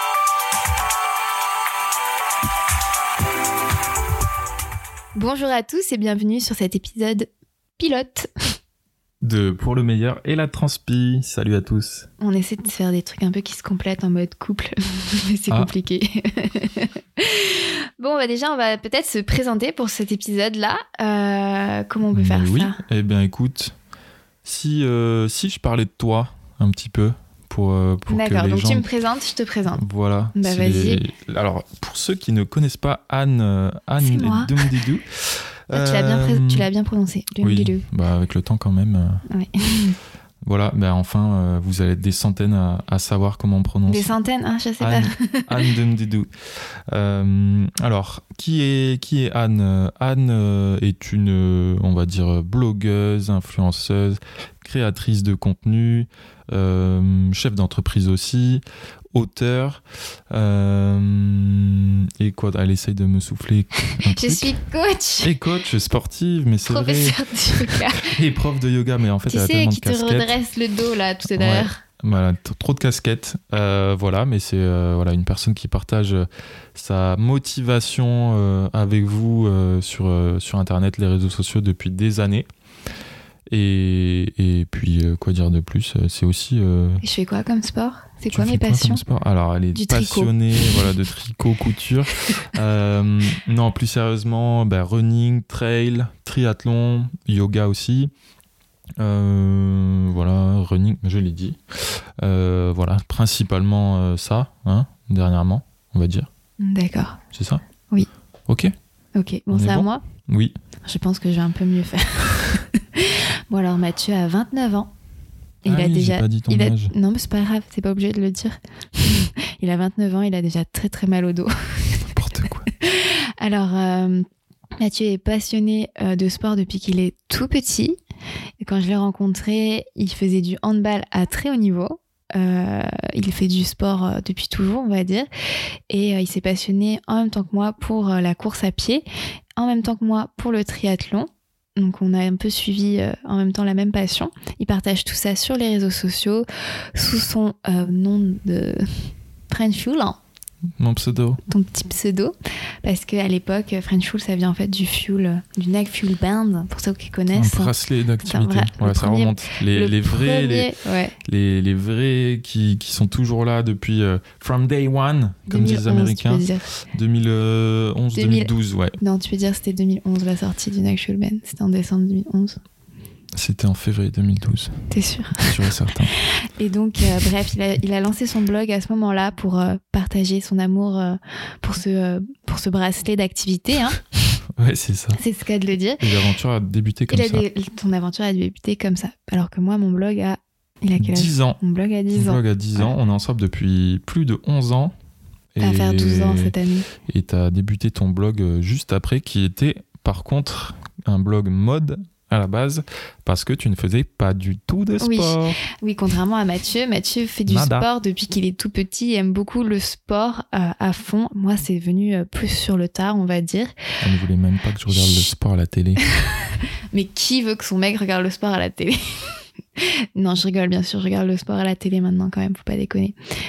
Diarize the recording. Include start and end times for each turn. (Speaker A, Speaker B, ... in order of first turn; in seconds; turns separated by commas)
Speaker A: 5.1-8.3, Speaker B: 9.2-12.1, Speaker A: 12.2-22.8, Speaker B: 22.1-23.7, Speaker B: 24.4-28.8, Speaker A: 28.1-29.8, Speaker B: 29.8-35.0, Speaker A: 30.3-31.0, Speaker A: 34.0-34.7, Speaker B: 35.7-36.7, Speaker A: 35.7-37.8, Speaker B: 37.4-39.2, Speaker A: 39.3-40.0, Speaker B: 40.4-44.1, Speaker A: 43.9-45.6, Speaker B: 44.8-46.3, Speaker B: 46.9-58.6, Speaker B: 59.1-64.5, Speaker A: 63.9-65.3, Speaker B: 65.2-70.3, Speaker A: 66.7-68.1, Speaker A: 69.3-71.8, Speaker B: 71.3-82.5, Speaker B: 83.5-87.0, Speaker A: 87.0-89.0, Speaker B: 88.3-98.1, Speaker A: 89.7-90.8, Speaker B: 99.0-106.3, Speaker A: 106.6-107.2, Speaker B: 107.3-107.6, Speaker B: 108.5-108.7, Speaker A: 109.1-110.0, Speaker B: 109.5-110.5, Speaker A: 110.8-114.9, Speaker A: 115.6-122.0, Speaker B: 115.7-116.9, Speaker B: 122.0-122.7, Speaker A: 122.8-124.2, Speaker A: 124.8-128.0, Speaker A: 128.6-135.3, Speaker A: 135.9-139.0, Speaker A: 139.6-150.2, Speaker B: 150.8-151.4, Speaker A: 151.4-161.2, Speaker B: 157.3-160.7, Speaker B: 161.2-168.9, Speaker A: 165.5-166.7, Speaker A: 168.1-172.6, Speaker B: 173.3-176.1, Speaker A: 174.9-175.7, Speaker A: 176.5-184.0, Speaker B: 184.6-185.2, Speaker A: 185.1-186.1, Speaker B: 186.0-187.4, Speaker A: 187.1-192.9, Speaker B: 191.0-191.6, Speaker B: 192.1-194.9, Speaker B: 195.5-196.5, Speaker A: 195.6-196.9, Speaker B: 197.1-205.6, Speaker A: 205.0-213.7, Speaker B: 207.5-207.9, Speaker B: 214.0-216.0, Speaker A: 216.9-223.2